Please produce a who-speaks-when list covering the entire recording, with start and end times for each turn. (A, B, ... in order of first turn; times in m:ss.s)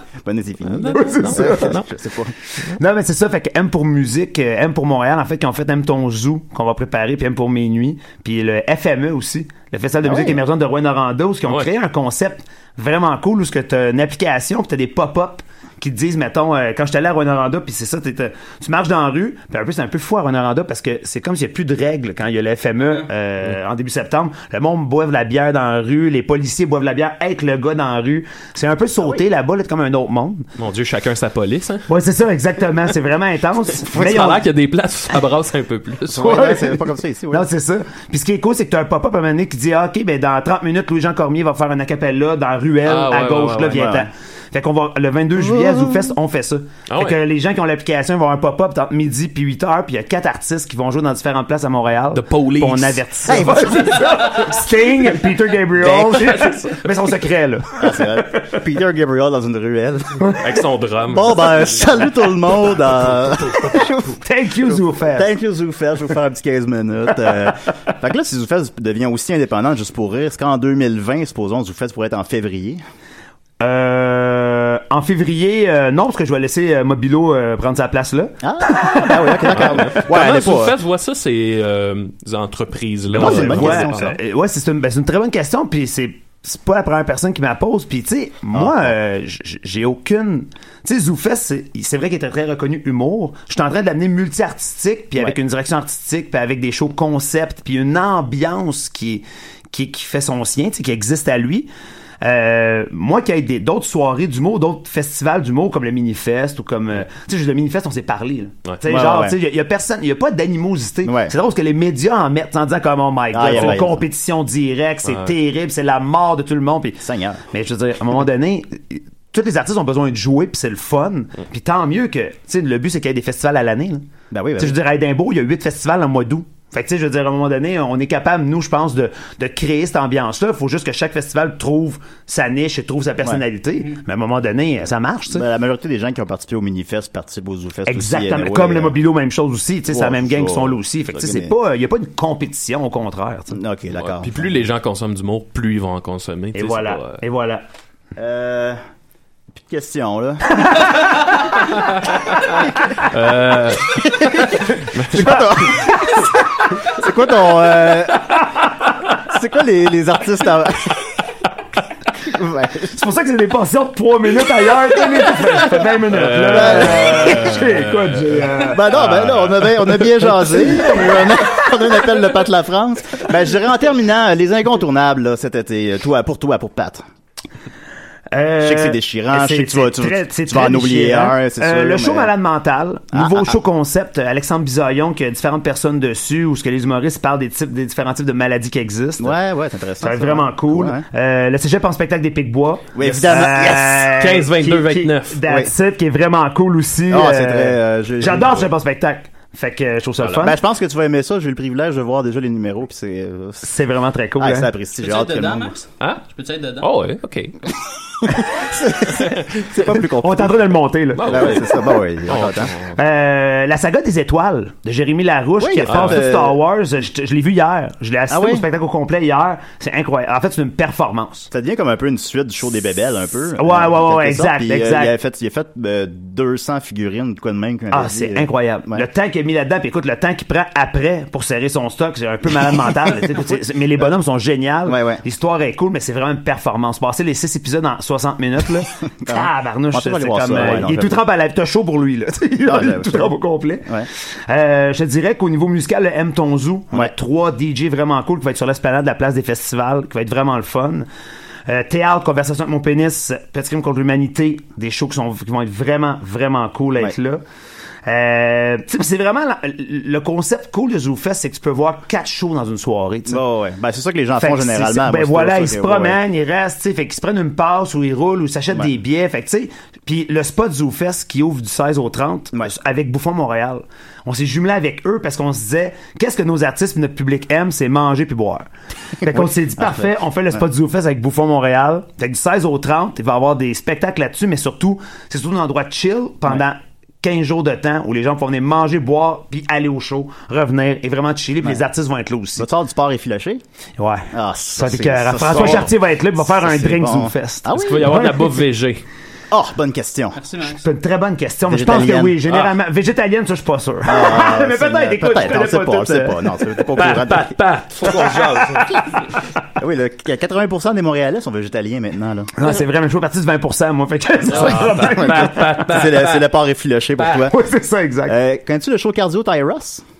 0:00.2-0:02.4 A
0:00.7-0:01.9 B
0:00.8-0:01.8 C
0:02.8-0:30.5 C
0:10.0-0:10.4 A
0:11.4-0:11.7 B
0:29.0-0:29.3 A
0:30.6-0:31.9 B
0:31.9-0:34.5 C
0:33.8-0:36.5 B
0:36.1-0:37.5 A
0:36.2-0:58.6 C
0:42.8-0:44.0 B
0:43.7-0:44.1 A
0:45.3-0:46.2 A
0:46.9-0:47.2 B
0:52.1-0:53.4 B
0:53.3-0:54.6 A
0:55.8-0:56.4 A
0:55.8-0:56.9 B
0:57.8-1:00.4 A
1:00.4-1:02.2 B
1:01.1-1:12.8 A
1:03.1-1:03.8 B
1:04.2-1:05.3 C
1:07.3-1:07.6 C
1:13.6-1:19.8 C
1:18.4-1:20.8 A
1:19.5-1:24.2 B
1:23.1-1:24.2 A
1:23.1-1:41.7 C
1:28.5-1:29.0 A
1:42.2-2:04.1 C
1:48.8-1:49.4 A
1:51.0-1:51.4 A
1:53.3-1:54.0 A
1:53.5-1:53.8 B
1:55.0-1:55.3 B
1:57.0-1:57.4 A
2:04.3-2:04.8 A
2:04.6-2:15.4 C
2:15.3-2:19.0 A
2:17.9-2:23.6 C
2:19.9-2:21.6 A
2:23.5-2:24.6 A
2:23.9-2:27.2 B
2:26.6-2:27.6 C
2:28.2-2:28.8 A
2:29.5-2:30.9 A
2:31.6-2:35.4 B
2:33.8-2:36.3 A
2:35.1-2:36.7 C
2:36.8-2:38.4 A
2:39.2-2:41.1 A
2:42.2-2:43.0 A
2:42.9-2:48.8 C
2:46.1-2:50.5 B
2:46.5-2:47.6 A
2:48.6-2:57.0 A
2:50.6-2:52.0 C
2:58.3-3:09.4 C
2:58.6-3:02.3 A
3:03.1-3:03.6 A
3:09.2-3:11.0 A
3:10.0-3:20.6 C
3:12.9-3:14.1 A
3:13.0-3:15.4 B
3:15.5-3:15.7 A
3:17.1-3:18.7 A
3:20.4-3:23.7 A
3:23.6-3:24.7 C
3:24.4-3:25.8 A
3:25.0-3:26.9 D
3:26.0-3:26.2 B
3:26.8-3:27.6 B
3:28.2-3:32.8 A
3:29.2-3:29.6 B
3:29.9-3:31.7 C
3:31.2-3:33.0 B
3:32.9-3:41.5 C
3:35.6-3:36.6 A
3:35.9-3:36.2 B
3:38.3-3:38.7 A
3:41.5-3:49.1 A
3:43.6-3:45.1 C
3:47.9-4:11.1 C
3:53.0-3:54.1 A
3:54.8-3:55.2 A
3:59.2-4:01.3 A
4:02.6-4:03.3 A
4:11.7-4:17.4 C
4:18.0-4:23.4 C
4:23.3-4:26.2 A
4:24.4-4:52.7 C
4:39.2-4:40.6 A
4:52.6-4:53.6 A
4:54.0-4:58.5 C
4:54.3-4:58.2 A
4:55.6-4:55.9 B
4:57.7-4:59.0 B
4:59.5-5:00.4 A
5:00.4-5:00.8 D
5:00.8-5:07.2 C
5:01.6-5:02.4 A
5:02.5-5:02.7 B
5:04.0-5:07.6 A
5:07.0-5:09.0 B
5:08.0-5:09.1 C
5:09.8-5:12.5 A
5:12.6-5:16.0 C
5:14.5-5:17.6 A
5:14.5-5:16.5 B
5:17.2-5:17.4 B
5:17.5-5:18.4 C
5:18.3-5:20.0 A